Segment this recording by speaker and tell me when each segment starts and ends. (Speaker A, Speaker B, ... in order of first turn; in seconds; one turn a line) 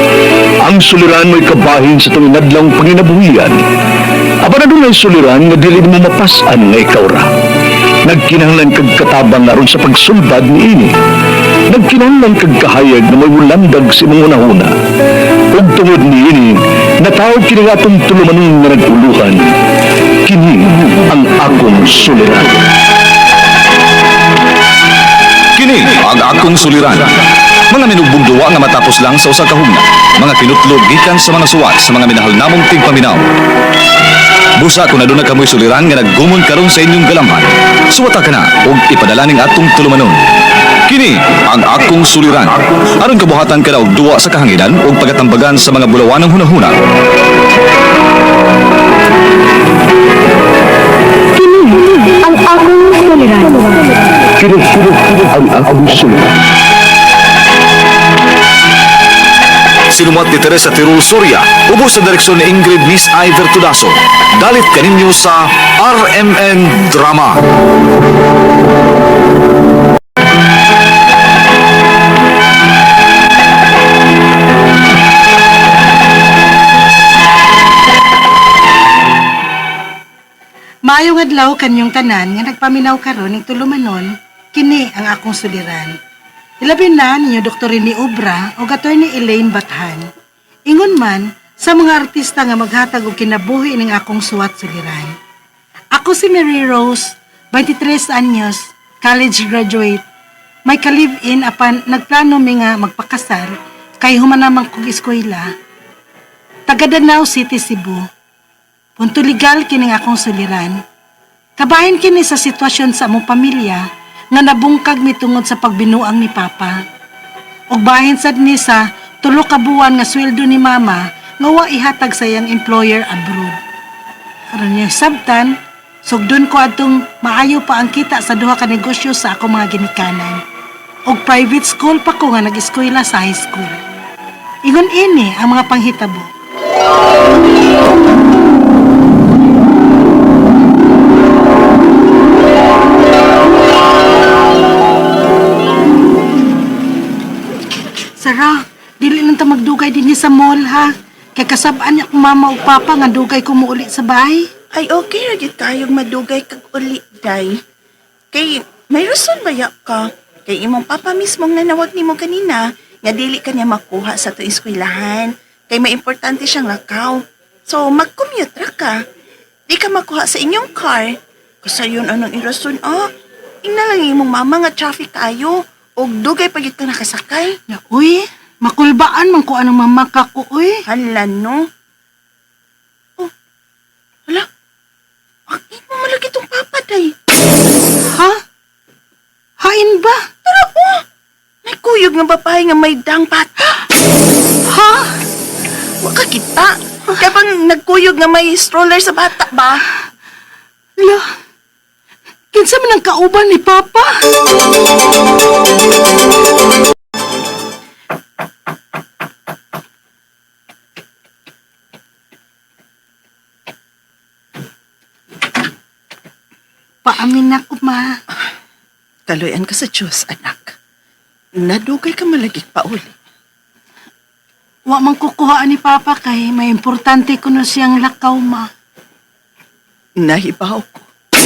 Speaker A: 0.7-3.5
Speaker A: 4.4-7.2
Speaker A: 8.1-10.9
Speaker A: 11.7-14.7
Speaker A: 15.6-16.5
Speaker A: 17.1-19.4
Speaker A: 20.2-22.5
Speaker B: 25.6-27.1
Speaker B: 27.7-33.2
Speaker B: 34.6-40.2
Speaker B: 40.9-46.7
Speaker C: 51.3-53.9
Speaker A: 54.4-56.2
Speaker B: 59.9-67.4
Speaker D: 80.8-85.9
Speaker D: 86.6-90.0
Speaker D: 90.7-95.1
Speaker D: 95.9-100.0
Speaker D: 100.7-105.5
Speaker D: 106.7-108.0
Speaker D: 109.0-110.8
Speaker D: 111.6-116.8
Speaker D: 117.7-123.6
Speaker D: 124.5-130.4
Speaker D: 131.1-133.8
Speaker D: 134.7-136.3
Speaker D: 148.2-154.5
Speaker E: 154.7-157.6
Speaker E: 158.3-169.0
Speaker E: 169.7-173.1
Speaker E: 173.6-177.6
Speaker D: 177.7-180.8
Speaker E: 180.9-181.7
Speaker E: 185.5-187.1
Speaker D: 188.1-188.4
Speaker D: 189.6-190.2
Speaker E: 190.4-191.0
Speaker E: 191.7-193.8
Speaker D: 194.7-195.1
Speaker E: 196.0-199.8
Speaker D: 201.0-201.3
Speaker D: 202.5-204.1
Speaker D: 217.0-218.2
Speaker E: 219.3-220.7
Speaker E: 221.6-223.1
Speaker D: 224.9-228.7
Speaker E: 230.2-231.1